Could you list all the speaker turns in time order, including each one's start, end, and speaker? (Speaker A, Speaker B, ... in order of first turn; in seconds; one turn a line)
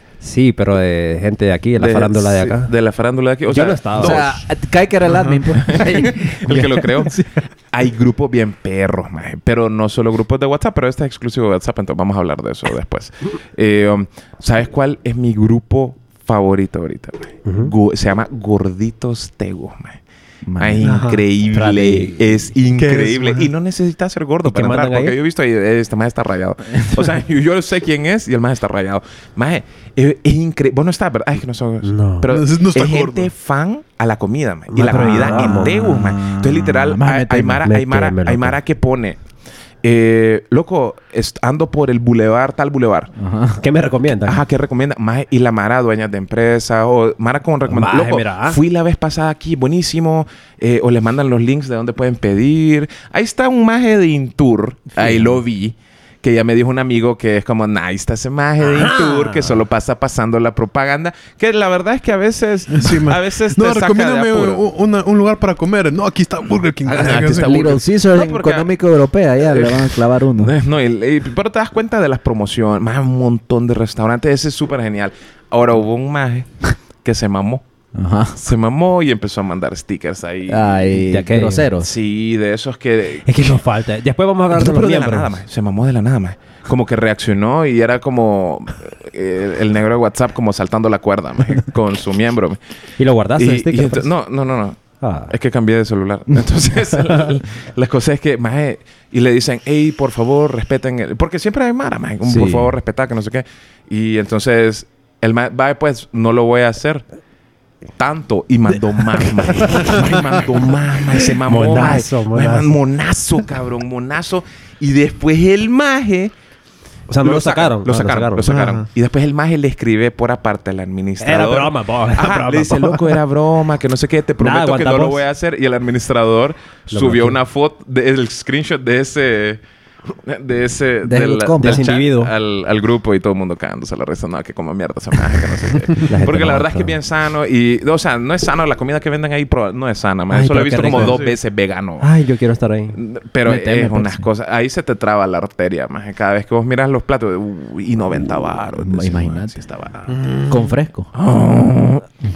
Speaker A: 0.2-2.7
Speaker B: 1.8-4.4
Speaker A: 3.5-4.3
Speaker C: 4.0-7.3
Speaker D: 5.1-5.4
Speaker B: 5.5-20.0
Speaker A: 17.4-17.7
Speaker C: 20.4-21.0
Speaker B: 20.6-39.2
Speaker D: 20.8-21.2
Speaker A: 21.5-22.2
Speaker D: 22.7-23.5
Speaker A: 24.4-25.1
Speaker A: 31.8-32.3
Speaker D: 32.3-33.3
Speaker A: 34.7-35.7
Speaker C: 34.8-37.7
Speaker A: 37.7-38.5
Speaker B: 39.8-43.1
Speaker C: 43.1-43.6
Speaker A: 43.6-44.4
Speaker B: 44.2-64.6
Speaker A: 47.7-48.6
Speaker A: 58.6-59.6
Speaker D: 62.7-67.6
Speaker B: 66.8-68.7
Speaker C: 67.1-70.5
Speaker B: 69.5-77.6
Speaker C: 77.9-78.4
Speaker B: 78.4-81.0
Speaker C: 80.5-81.9
Speaker A: 81.1-81.7
Speaker B: 81.8-83.5
Speaker A: 83.2-85.4
Speaker B: 84.5-92.6
Speaker A: 93.0-94.1
Speaker B: 93.4-107.0
Speaker A: 95.0-95.3
Speaker C: 102.2-102.7
Speaker B: 108.0-116.3
Speaker D: 109.7-110.2
Speaker A: 111.4-112.8
Speaker A: 117.1-118.5
Speaker B: 117.2-129.6
Speaker D: 118.4-118.9
Speaker A: 121.2-123.2
Speaker A: 124.4-125.2
Speaker A: 126.9-127.4
Speaker B: 130.2-142.1
Speaker C: 131.0-131.8
Speaker A: 131.6-132.3
Speaker A: 136.1-136.9
Speaker A: 140.3-141.2
Speaker D: 140.9-141.3
Speaker A: 142.0-143.0
Speaker B: 142.9-150.1
Speaker C: 143.4-144.3
Speaker C: 148.8-149.6
Speaker D: 150.1-150.7
Speaker C: 150.5-151.1
Speaker B: 151.1-152.0